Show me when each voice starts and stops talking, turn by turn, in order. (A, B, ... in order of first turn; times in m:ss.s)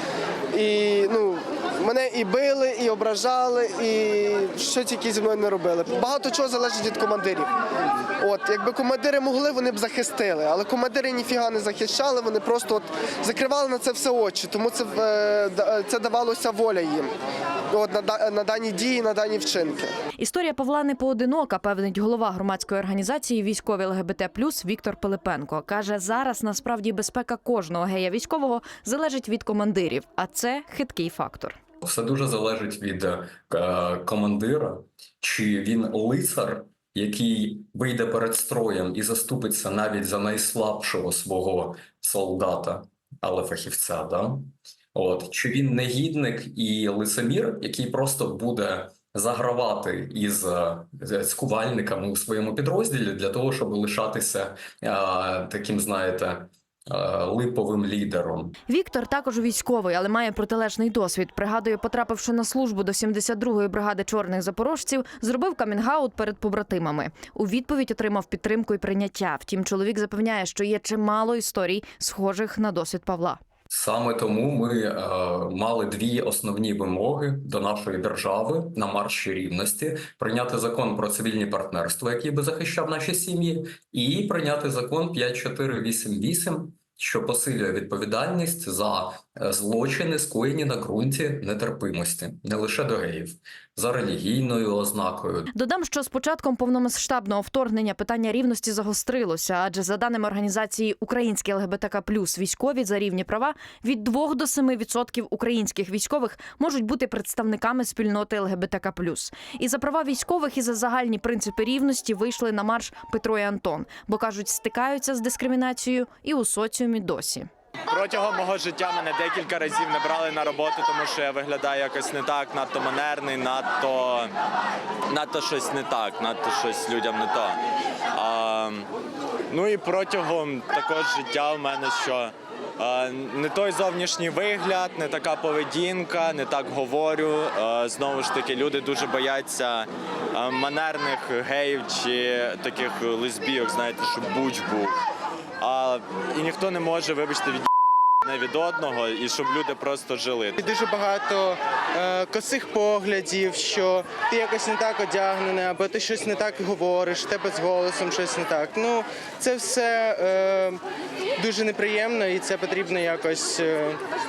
0:00.5-0:07.5 A
0:08.2-0:17.1 A
0:17.7-0:19.9 A
0:20.2-0:31.6 B
0:31.8-0:58.6 C
0:58.7-1:13.4 B
1:13.7-1:35.5 C
1:35.5-1:57.5 B
1:57.9-2:04.3 D
2:05.1-2:07.6 D
2:08.1-2:08.9 D
2:09.5-2:25.0 D
2:25.6-2:27.7 D
2:28.2-2:30.6 D
2:30.6-2:40.8 E
2:41.4-2:44.0 E